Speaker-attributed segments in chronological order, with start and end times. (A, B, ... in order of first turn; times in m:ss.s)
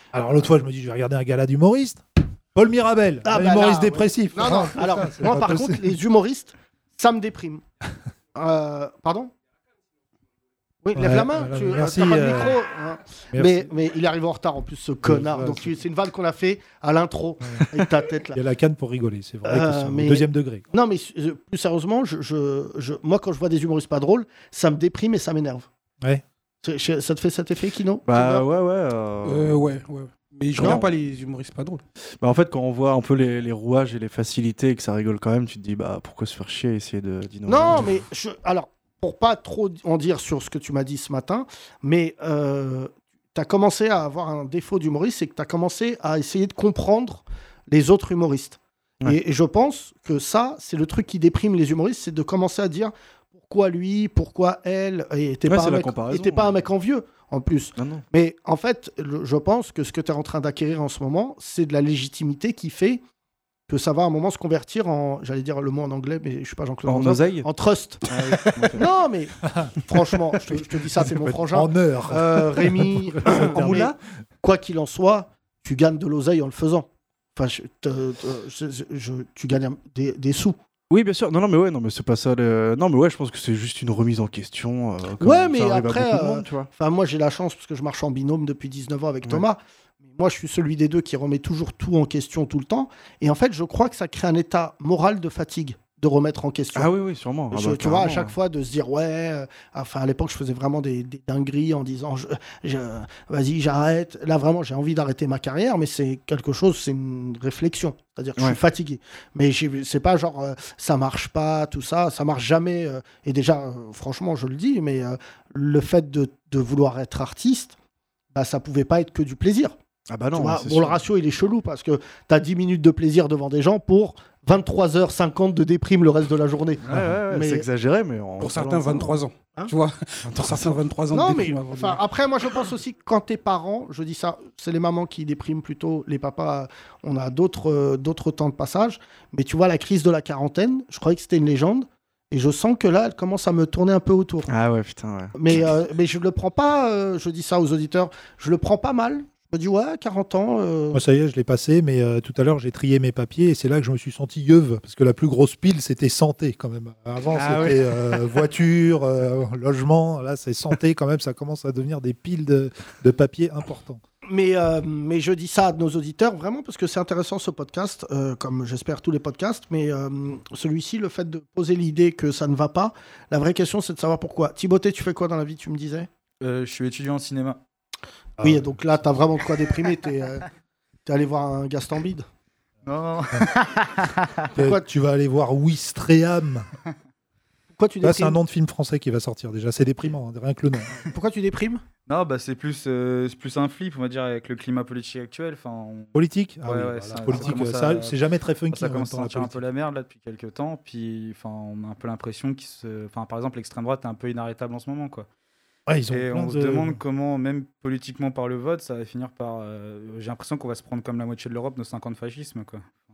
0:00.1-0:02.0 A
0:02.5-0:06.0 A
0:03.2-0:07.6 B
0:08.3-0:09.3 B
0:10.8-0:18.4 B
0:10.9-0:12.6 A
0:13.3-0:13.7 A
0:15.0-0:15.7 A
0:18.3-0:20.6 A
0:19.4-0:25.7 B
0:26.6-0:28.4 B
0:28.0-0:29.6 C
0:29.2-0:31.8 D
0:30.6-0:30.8 B
0:30.6-0:30.9 C
0:32.2-0:38.0 C
0:37.5-1:03.0 B
0:55.4-0:56.5 C
0:57.8-0:58.0 C
1:03.7-1:08.1 B
1:06.8-1:07.5 C
1:08.1-1:08.8 C
1:08.7-1:20.6 B
1:11.2-1:13.9 A
1:13.2-1:13.9 C
1:20.9-1:26.7 C
1:25.2-1:36.9 B
1:36.7-1:38.3 C
1:37.5-1:57.7 B
1:58.3-1:59.8 B
2:00.1-2:01.0 C
2:00.3-2:07.6 B
2:06.8-2:09.2 C
2:08.4-2:12.0 D
2:10.2-2:10.8 C
2:11.1-2:24.5 B
2:24.5-2:25.4 C
2:25.3-2:31.0 B
2:30.9-2:44.0 A
2:44.2-2:56.1 B
2:56.4-2:57.6 E
2:58.4-2:58.7 A
2:58.4-3:00.4 B
3:01.0-3:02.2 B
3:02.8-3:04.3 E
3:04.5-3:06.7 A
3:04.6-3:04.8 B
3:07.7-3:08.4 B
3:08.0-3:11.0 A
3:11.1-3:11.8 B
3:12.1-3:16.1 E
3:16.1-3:19.6 A
3:16.6-3:18.2 E
3:18.7-3:25.3 E
3:25.9-3:27.0 A
3:26.1-3:32.9 E